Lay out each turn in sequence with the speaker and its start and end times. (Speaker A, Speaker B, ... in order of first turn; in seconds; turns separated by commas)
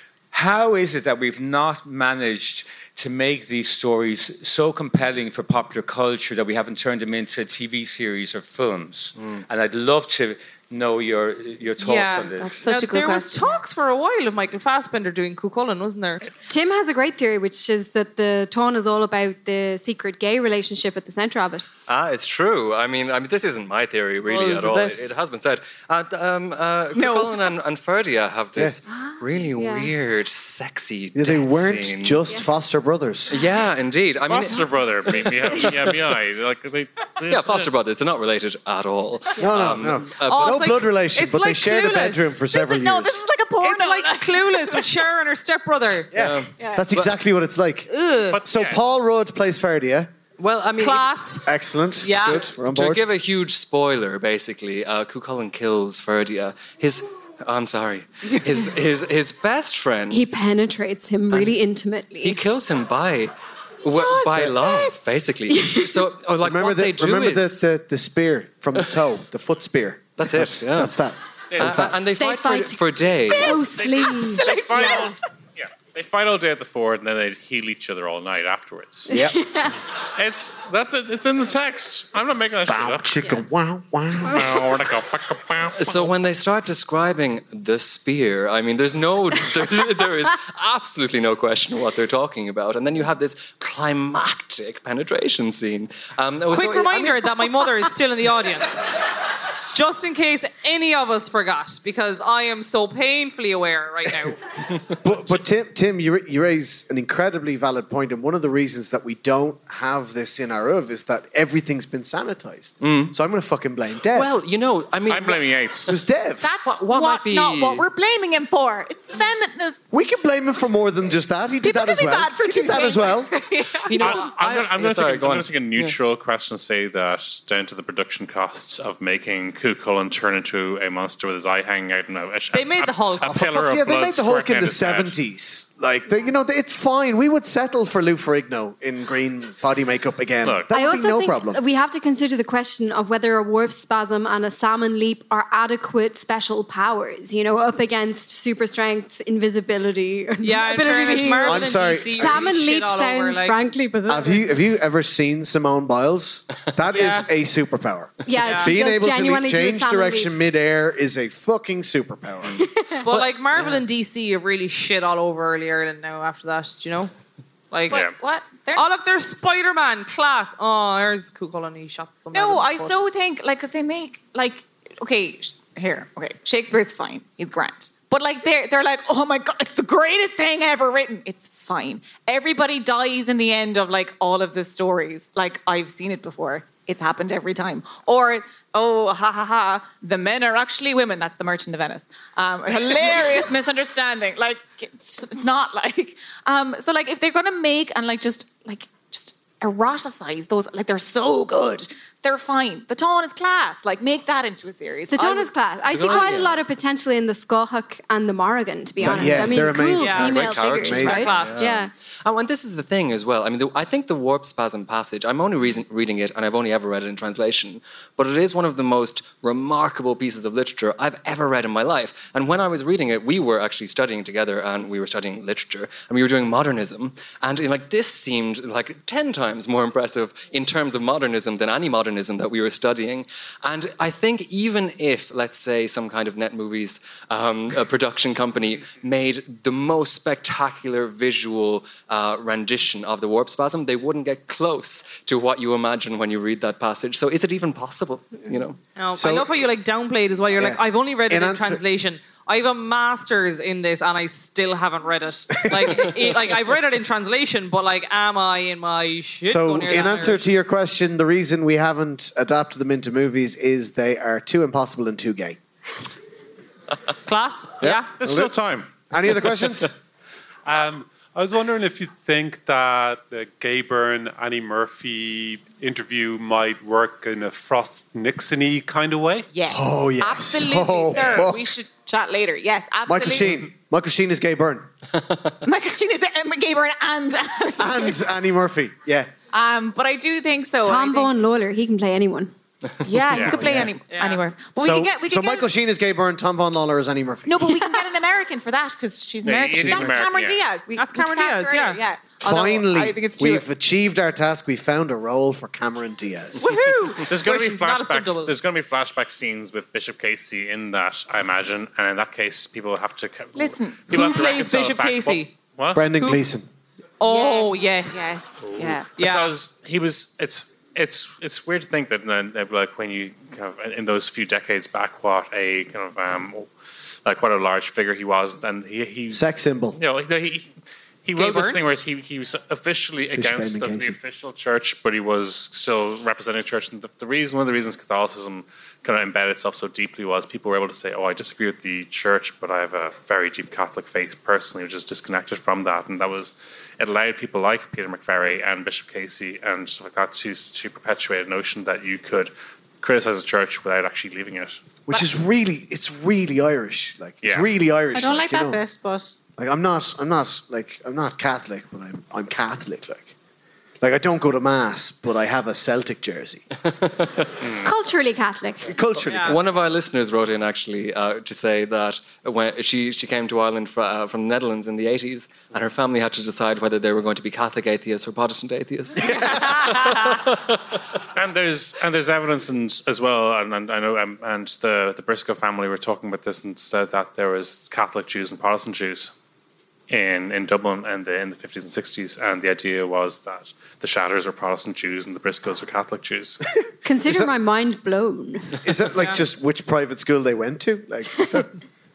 Speaker A: 0.3-12.6, Speaker B: 11.8-16.3, Speaker C: 12.4-13.4, Speaker D: 16.5-21.7, Speaker E: 21.9-32.2, Speaker C: 24.3-25.0, Speaker C: 26.9-27.4, Speaker D: 29.1-29.9, Speaker F: 31.1-33.4, Speaker E: 33.3-35.9, Speaker G: 34.2-37.7, Speaker E: 37.3-40.6, Speaker F: 39.4-43.2, Speaker B: 40.2-42.3, Speaker C: 42.5-44.9, Speaker B: 43.6-46.1, Speaker E: 46.1-47.1, Speaker F: 46.1-47.9, Speaker C: 46.6-46.9, Speaker B: 47.9-48.4, Speaker G: 48.3-48.8, Speaker F: 48.4-50.1, Speaker E: 50.4-51.1, Speaker B: 50.8-51.5, Speaker F: 51.4-53.0, Speaker B: 52.0-52.4, Speaker E: 52.2-60.2, Speaker D: 60.1-62.4, Speaker E: 61.3-61.5, Speaker E: 62.2-67.6, Speaker D: 65.5-66.1, Speaker F: 66.4-72.0, Speaker E: 70.2-71.0, Speaker G: 71.5-71.9, Speaker E: 71.6-73.6, Speaker D: 72.0-75.1, Speaker C: 73.3-75.1, Speaker G: 73.8-79.2, Speaker F: 79.1-79.4, Speaker D: 79.1-79.7, Speaker G: 80.1-83.4, Speaker F: 82.6-84.5, Speaker G: 84.2-86.0, Speaker E: 85.8-97.3, Speaker B: 96.5-98.8, Speaker B: 99.7-104.4, Speaker F: 105.0-114.3, Speaker E: 112.8-113.1, Speaker E: 114.1-115.5, Speaker G: 115.1-116.0, Speaker F: 115.8-116.5, Speaker C: 116.4-119.8, Speaker E: 116.6-117.8, Speaker F: 119.9-123.3, Speaker C: 121.6-124.1, Speaker E: 123.8-126.0, Speaker G: 123.9-135.2, Speaker B: 132.5-133.3, Speaker F: 133.2-141.6, Speaker G: 140.4-140.7, Speaker D: 140.7-154.5, Speaker B: 150.4-153.6, Speaker F: 151.4-152.5, Speaker F: 154.1-162.6, Speaker B: 156.9-157.3, Speaker D: 158.2-160.3, Speaker B: 158.4-158.7, Speaker D: 162.6-163.0, Speaker B: 163.0-167.1, Speaker E: 163.2-163.8, Speaker B: 167.7-168.0, Speaker C: 167.9-168.9, Speaker B: 168.7-173.0, Speaker C: 172.3-205.5, Speaker D: 205.1-211.9, Speaker E: 205.9-206.6, Speaker F: 209.0-211.5, Speaker E: 209.2-248.8, Speaker B: 210.0-211.7, Speaker B: 248.9-260.4, Speaker F: 249.1-249.6, Speaker F: 250.5-251.8, Speaker F: 255.7-256.3, Speaker F: 259.4-265.6, Speaker B: 267.2-268.1, Speaker F: 267.8-268.5, Speaker G: 268.2-268.9, Speaker F: 269.1-269.9, Speaker H: 270.6-279.5, Speaker C: 279.5-283.6, Speaker F: 279.7-281.7, Speaker F: 283.1-284.9, Speaker C: 285.6-288.2, Speaker F: 287.8-289.3, Speaker C: 289.5-291.3, Speaker D: 290.8-292.5, Speaker C: 293.0-295.7, Speaker G: 293.3-293.6, Speaker F: 293.4-293.9, Speaker B: 294.1-294.4, Speaker F: 294.8-297.8, Speaker C: 297.4-303.7, Speaker G: 299.4-300.6, Speaker F: 299.8-300.2, Speaker B: 300.9-302.0, Speaker F: 302.4-306.7, Speaker B: 306.6-308.5, Speaker G: 307.2-316.0, Speaker C: 313.6-314.2, Speaker B: 314.1-315.5, Speaker F: 315.9-316.7, Speaker B: 316.2-316.4, Speaker B: 317.2-318.3, Speaker C: 317.2-319.1, Speaker G: 318.6-326.7, Speaker B: 319.2-319.5, Speaker G: 327.2-329.4, Speaker F: 329.3-330.0, Speaker G: 329.9-330.7, Speaker G: 331.2-354.8, Speaker B: 331.3-331.8, Speaker F: 333.3-334.2, Speaker F: 355.1-358.8, Speaker C: 358.1-359.3, Speaker F: 359.6-363.3, Speaker F: 364.0-366.6, Speaker E: 366.8-367.5, Speaker D: 367.8-368.9, Speaker F: 368.9-369.6, Speaker B: 369.2-369.6, Speaker E: 369.4-380.8, Speaker F: 379.3-379.8, Speaker G: 381.3-389.4, Speaker G: 390.1-396.6, Speaker D: 397.0-398.8, Speaker F: 397.3-397.5, Speaker F: 398.8-401.7